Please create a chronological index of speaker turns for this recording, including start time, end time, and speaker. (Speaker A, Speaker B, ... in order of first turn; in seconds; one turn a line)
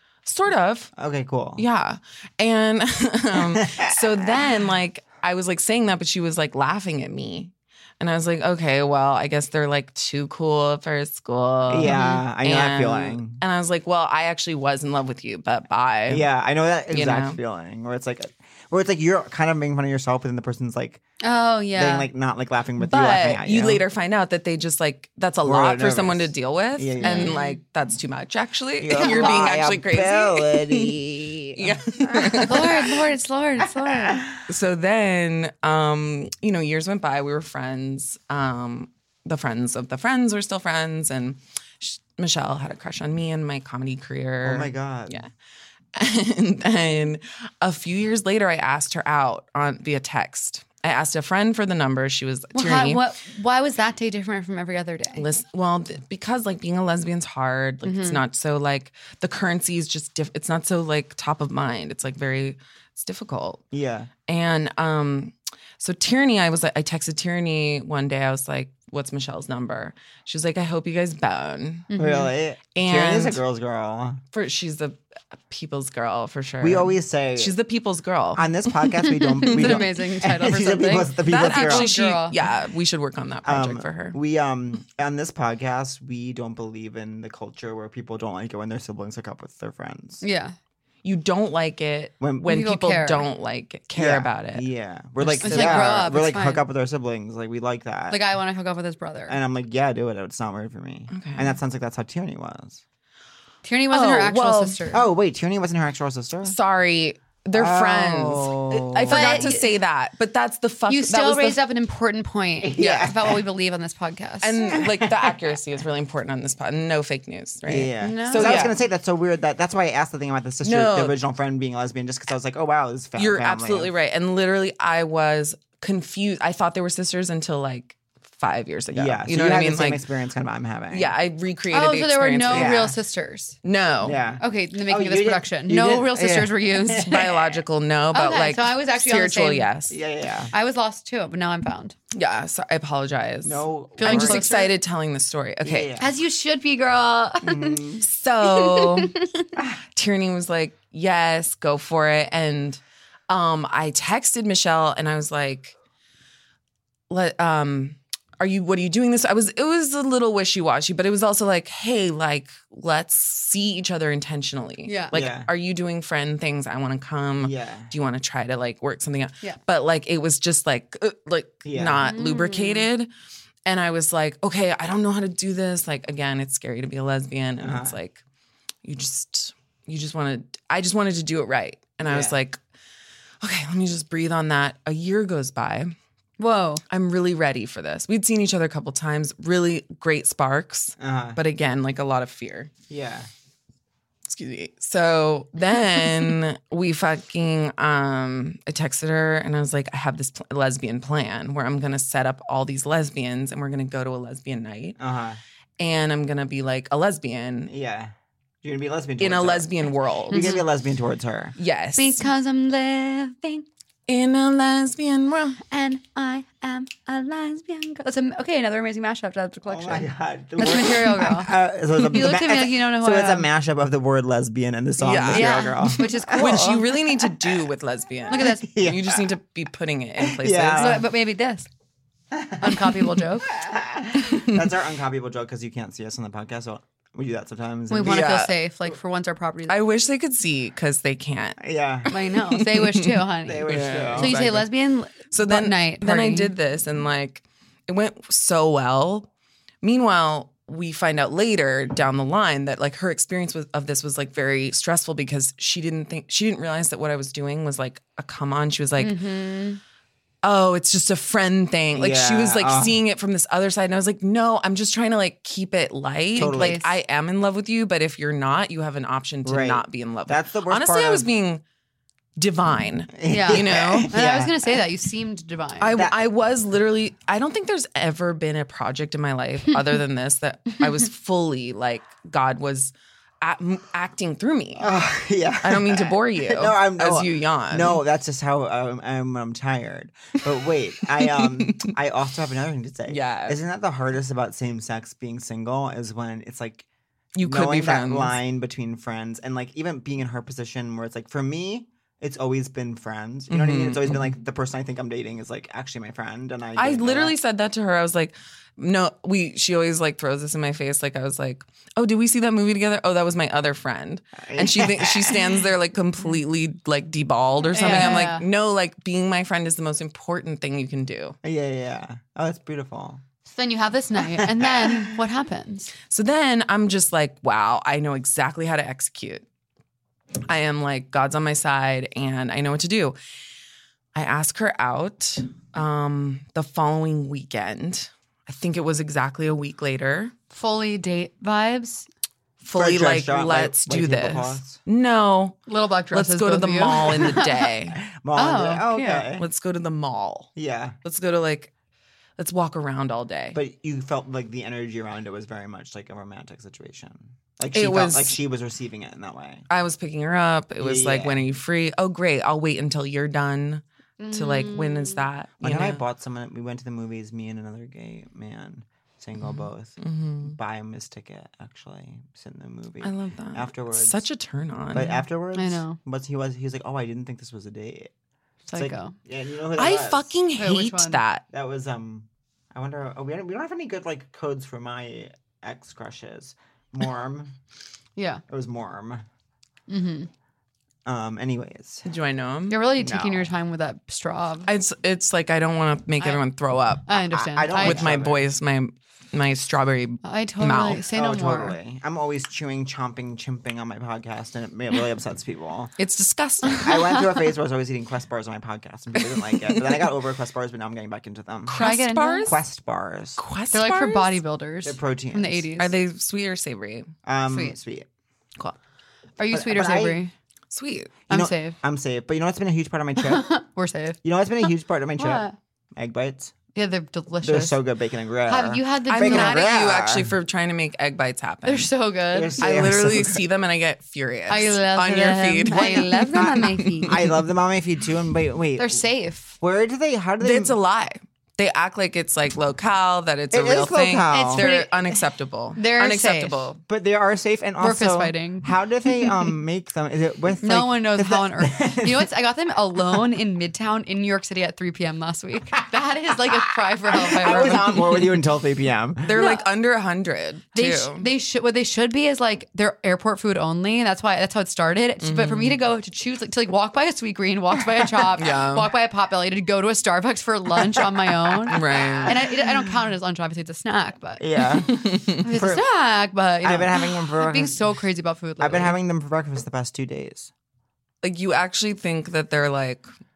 Speaker A: 0.2-0.9
Speaker B: 1.0-1.7
Speaker A: 1.6-16.3
Speaker B: 3.3-4.4
Speaker B: 11.7-13.4
Speaker C: 11.8-12.2
Speaker B: 16.1-21.0
Speaker A: 16.9-17.4
Speaker C: 21.2-22.1
Speaker B: 21.8-23.8
Speaker A: 22.8-31.0
Speaker B: 25.4-27.4
Speaker C: 27.0-27.6
Speaker B: 28.8-32.9
Speaker C: 29.0-29.5
Speaker A: 31.6-32.9
Speaker C: 32.4-34.2
Speaker B: 33.6-34.5
Speaker A: 34.5-45.3
Speaker B: 44.4-45.2
Speaker A: 46.0-53.0
Speaker C: 52.5-55.2
Speaker A: 55.2-63.6
Speaker C: 57.9-58.2
Speaker B: 63.7-64.1
Speaker A: 64.3-71.9
Speaker C: 71.9-72.3
Speaker B: 72.0-74.2
Speaker A: 72.7-73.4
Speaker A: 74.3-78.5
Speaker B: 76.6-77.5
Speaker B: 78.4-81.9
Speaker C: 79.0-82.4
Speaker A: 79.4-79.8
Speaker A: 81.2-84.2
Speaker B: 83.5-90.2
Speaker C: 90.2-90.5
Speaker A: 91.0-94.7
Speaker B: 92.2-92.5
Speaker C: 92.5-93.3
Speaker B: 93.9-98.2
Speaker A: 95.2-96.0
Speaker C: 95.4-96.6
Speaker C: 98.1-99.4
Speaker B: 99.3-102.8
Speaker A: 101.1-101.6
Speaker C: 103.6-105.0
Speaker A: 103.9-104.9
Speaker B: 104.9-106.6
Speaker A: 106.5-111.6
Speaker B: 107.5-109.6
Speaker C: 109.1-109.7
Speaker C: 110.9-114.6
Speaker B: 112.6-113.4
Speaker A: 112.8-113.1
Speaker A: 114.4-118.8
Speaker B: 114.7-115.4
Speaker B: 117.7-123.9
Speaker C: 118.0-118.7
Speaker A: 120.6-121.2
Speaker A: 123.2-130.0
Speaker B: 128.9-131.1
Speaker A: 130.9-132.9
Speaker C: 131.7-133.6
Speaker B: 132.5-132.9
Speaker A: 133.6-134.2
Speaker B: 134.0-137.6
Speaker C: 134.4-137.1
Speaker A: 137.1-140.0
Speaker C: 138.1-139.7
Speaker B: 139.9-140.5
Speaker C: 140.5-141.9
Speaker A: 142.1-145.9
Speaker B: 143.4-144.5
Speaker C: 144.0-144.8
Speaker B: 145.6-146.1
Speaker C: 146.0-147.8
Speaker B: 147.4-148.1
Speaker A: 148.0-149.2
Speaker C: 148.4-149.5
Speaker A: 149.9-155.8
Speaker A: 157.1-173.1
Speaker C: 164.8-165.2
Speaker B: 165.1-165.5
Speaker B: 167.4-167.9
Speaker B: 171.7-172.1
Speaker C: 172.0-172.9
Speaker A: 173.7-178.2
Speaker B: 177.6-178.0
Speaker A: 178.8-182.6
Speaker B: 182.1-182.4
Speaker A: 183.4-185.9
Speaker C: 186.4-186.8
Speaker A: 186.9-192.7
Speaker B: 191.0-191.4
Speaker B: 192.9-193.3
Speaker A: 194.3-205.0
Speaker B: 205.0-205.4
Speaker A: 205.8-207.7
Speaker B: 207.7-209.7
Speaker A: 209.2-210.6
Speaker B: 210.3-211.6
Speaker C: 210.3-210.7
Speaker A: 211.6-212.3
Speaker C: 212.0-213.7
Speaker A: 214.1-215.6
Speaker C: 215.7-221.5
Speaker B: 219.7-227.6
Speaker C: 222.0-223.5
Speaker A: 225.0-231.1
Speaker C: 225.3-226.8
Speaker C: 228.3-228.7
Speaker B: 228.4-229.3
Speaker B: 230.2-231.1
Speaker C: 230.8-231.7
Speaker B: 232.3-238.5
Speaker C: 232.6-233.5
Speaker A: 234.2-234.7
Speaker C: 237.9-239.8
Speaker A: 238.1-238.4
Speaker A: 239.7-241.6
Speaker B: 241.6-242.1
Speaker C: 242.1-246.5
Speaker A: 242.5-244.4
Speaker B: 243.5-244.7
Speaker A: 245.3-249.3
Speaker A: 249.8-259.2
Speaker C: 259.0-259.8
Speaker A: 260.4-271.6
Speaker B: 261.9-263.0
Speaker B: 266.4-266.8
Speaker C: 266.4-266.9
Speaker B: 269.4-271.3
Speaker A: 272.4-274.1
Speaker B: 273.2-274.8
Speaker C: 273.3-276.0
Speaker A: 275.8-284.9
Speaker B: 275.9-276.2
Speaker B: 284.8-296.9
Speaker A: 285.6-288.0
Speaker A: 291.3-291.9
Speaker A: 293.1-293.6
Speaker A: 297.4-298.4
Speaker B: 297.4-307.4
Speaker A: 303.5-304.3
Speaker A: 306.8-321.4
Speaker B: 314.4-315.6
Speaker C: 317.7-318.4
Speaker B: 317.8-318.1
Speaker B: 321.4-323.2
Speaker C: 323.5-325.9
Speaker B: 324.4-325.1
Speaker A: 326.1-329.4
Speaker A: 330.5-333.2
Speaker A: 334.1-340.3
Speaker C: 340.5-342.1
Speaker A: 342.6-345.6
Speaker B: 342.7-344.8
Speaker C: 345.7-347.5
Speaker A: 346.1-348.0
Speaker B: 348.0-349.4
Speaker C: 348.4-349.3
Speaker A: 349.4-350.5
Speaker B: 350.6-351.0
Speaker A: 351.0-351.7
Speaker A: 352.4-353.6
Speaker B: 353.5-359.7
Speaker A: 357.7-358.4
Speaker A: 359.7-366.0
Speaker B: 360.8-361.4
Speaker C: 364.2-365.3
Speaker B: 365.6-374.2
Speaker A: 369.4-370.6
Speaker A: 373.0-375.2
Speaker B: 374.9-378.1
Speaker C: 375.6-376.0
Speaker B: 378.7-380.3
Speaker C: 378.7-379.1
Speaker A: 379.8-381.4
Speaker C: 380.6-381.2
Speaker B: 381.5-387.5
Speaker C: 388.2-388.4
Speaker B: 388.5-389.2
Speaker C: 389.9-390.3
Speaker B: 391.1-392.1
Speaker A: 392.1-392.8
Speaker C: 392.7-394.7
Speaker B: 393.0-393.5
Speaker A: 394.7-397.1
Speaker C: 397.1-398.1
Speaker B: 397.3-398.5
Speaker A: 397.7-401.0
Speaker C: 400.2-401.8
Speaker B: 400.9-405.9
Speaker A: 406.0-406.9
Speaker C: 406.7-407.2
Speaker B: 406.8-411.9
Speaker A: 409.3-410.0
Speaker A: 411.7-412.6
Speaker C: 411.8-412.5
Speaker B: 412.4-413.4
Speaker A: 413.4-414.4
Speaker C: 413.7-415.9
Speaker B: 414.9-415.7
Speaker A: 415.8-417.1
Speaker B: 417.2-418.1
Speaker C: 417.5-417.8
Speaker C: 419.4-420.3
Speaker B: 419.5-420.2
Speaker A: 420.7-421.1
Speaker C: 421.3-421.8
Speaker B: 421.3-423.5
Speaker C: 423.2-424.2
Speaker B: 424.2-426.5
Speaker C: 425.2-425.6
Speaker C: 426.8-427.8
Speaker B: 427.4-430.4
Speaker C: 428.5-429.6
Speaker A: 429.1-431.9
Speaker C: 431.6-432.6
Speaker B: 432.3-433.4
Speaker A: 432.6-437.2
Speaker C: 434.5-437.2
Speaker B: 435.8-439.0
Speaker C: 438.8-439.6
Speaker B: 439.6-440.8
Speaker A: 440.4-446.8
Speaker B: 443.5-444.6
Speaker C: 444.6-444.9
Speaker C: 445.8-446.7
Speaker B: 446.9-452.3
Speaker C: 447.8-448.7
Speaker C: 450.6-458.0
Speaker B: 457.1-459.4
Speaker A: 457.5-458.0
Speaker A: 459.2-461.3
Speaker C: 460.7-474.5
Speaker A: 465.2-465.8
Speaker A: 468.4-468.9
Speaker B: 471.2-472.3
Speaker A: 471.7-472.4
Speaker B: 474.4-475.8
Speaker A: 474.9-475.4
Speaker C: 475.4-479.0
Speaker B: 476.6-477.8
Speaker B: 478.6-480.5
Speaker A: 481.2-483.1